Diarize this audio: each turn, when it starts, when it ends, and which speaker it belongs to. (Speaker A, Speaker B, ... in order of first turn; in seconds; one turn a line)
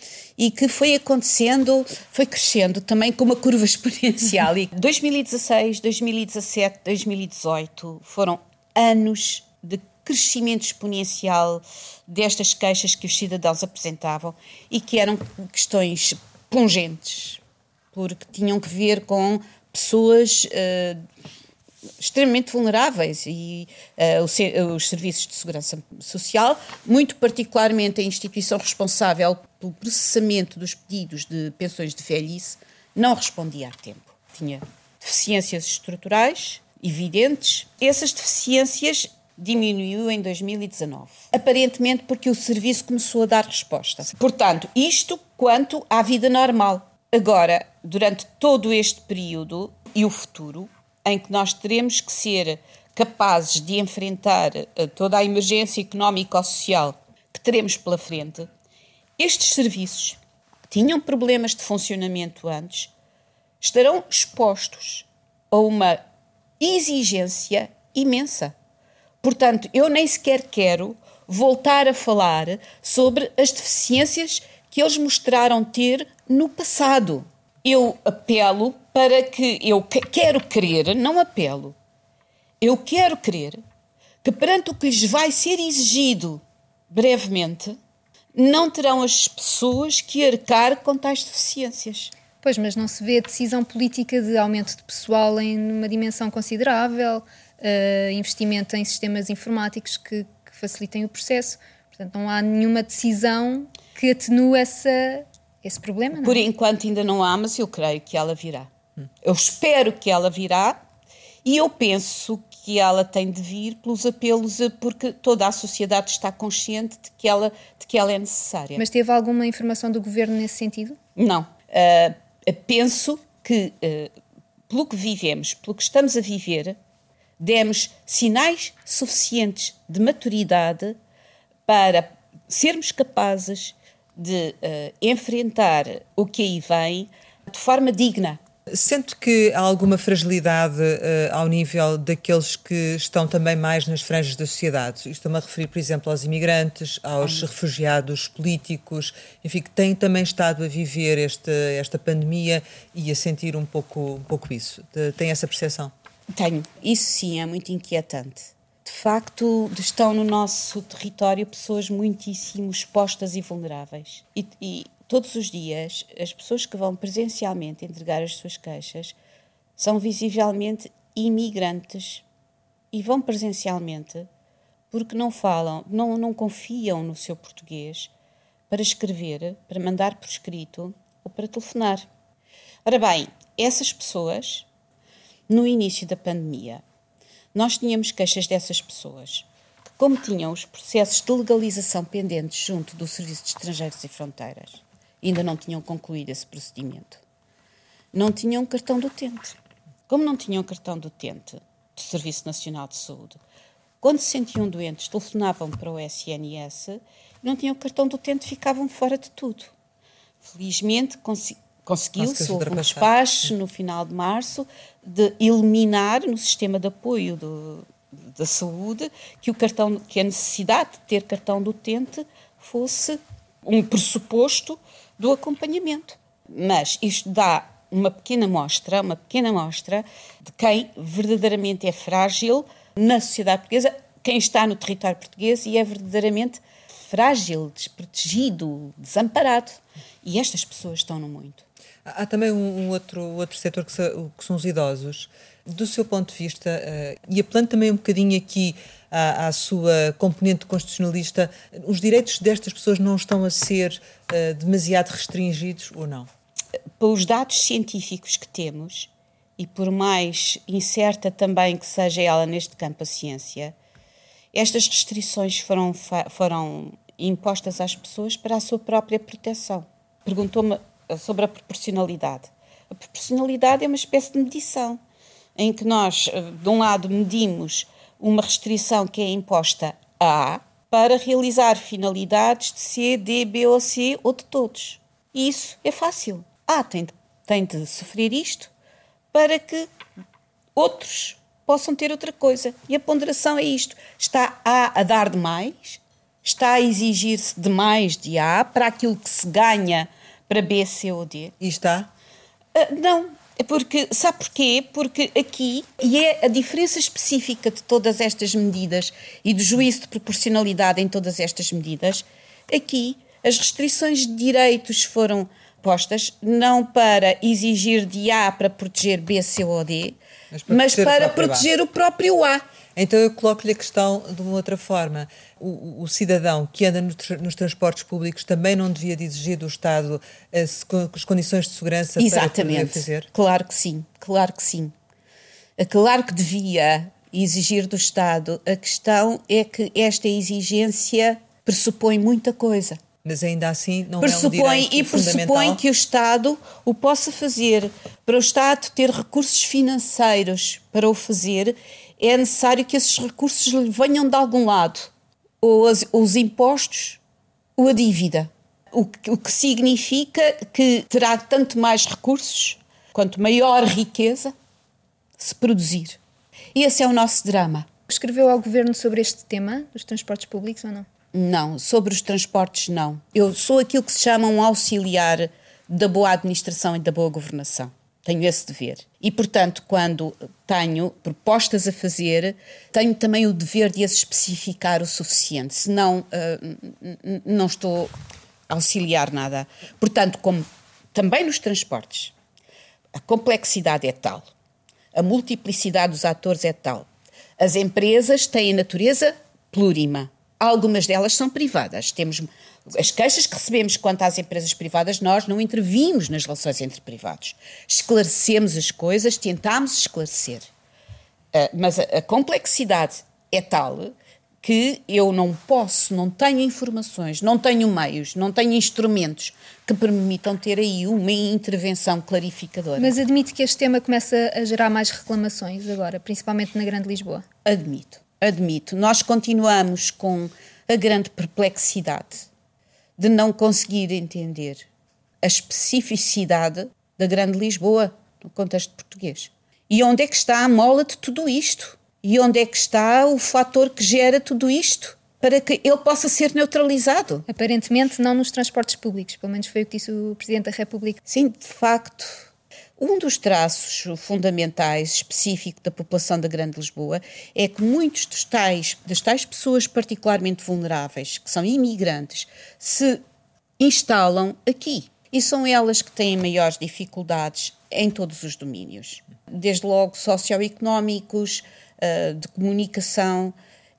Speaker A: 0.4-17.4
Speaker A: 17.9-21.0
Speaker A: 22.0-58.5
Speaker A: 59.2-60.2
Speaker A: 60.7-62.9
Speaker A: 63.6-66.0
Speaker A: 66.6-68.5
Speaker A: 69.2-81.8
Speaker A: 82.6-83.6
Speaker A: 84.2-87.8
Speaker A: 88.3-92.1
Speaker B: 92.4-106.5
Speaker A: 106.2-108.7
Speaker A: 109.2-110.8
Speaker A: 111.4-118.8
Speaker B: 118.8-121.0
Speaker A: 121.2-124.1
Speaker A: 124.7-126.8
Speaker A: 127.4-131.0
Speaker A: 131.7-138.4
Speaker C: 138.7-155.9
Speaker A: 156.3-169.1
Speaker A: 169.8-172.2
Speaker A: 172.9-174.3
Speaker A: 174.9-178.1
Speaker A: 178.7-182.1
Speaker A: 182.8-184.7
Speaker A: 185.5-186.8
Speaker A: 187.5-197.2
Speaker A: 198.1-199.6
Speaker A: 200.1-203.4
Speaker A: 204.0-209.7
Speaker A: 210.4-241.7
Speaker C: 212.2-213.1
Speaker C: 242.0-256.3
Speaker A: 257.0-263.7
Speaker A: 264.5-275.0
Speaker A: 275.6-288.7
Speaker A: 289.3-289.9
Speaker A: 290.8-301.5
Speaker C: 301.6-302.1
Speaker A: 302.7-320.2
Speaker C: 320.5-321.7
Speaker A: 320.7-322.6
Speaker C: 322.9-333.3
Speaker A: 332.2-334.9
Speaker A: 335.8-343.0
Speaker C: 343.2-345.8
Speaker A: 344.2-357.2
Speaker A: 357.8-364.5
Speaker A: 365.4-366.2
Speaker A: 366.7-367.9
Speaker B: 368.1-371.1
Speaker A: 371.3-388.1
Speaker A: 388.7-392.3
Speaker A: 393.1-394.5
Speaker A: 395.1-397.1
Speaker A: 397.6-410.7
Speaker A: 411.5-423.1
Speaker B: 423.0-427.4
Speaker A: 427.6-432.5
Speaker A: 433.2-434.9
Speaker A: 435.4-447.4
Speaker B: 447.5-451.2
Speaker A: 451.3-452.5
Speaker A: 453.0-463.2
Speaker A: 463.8-473.5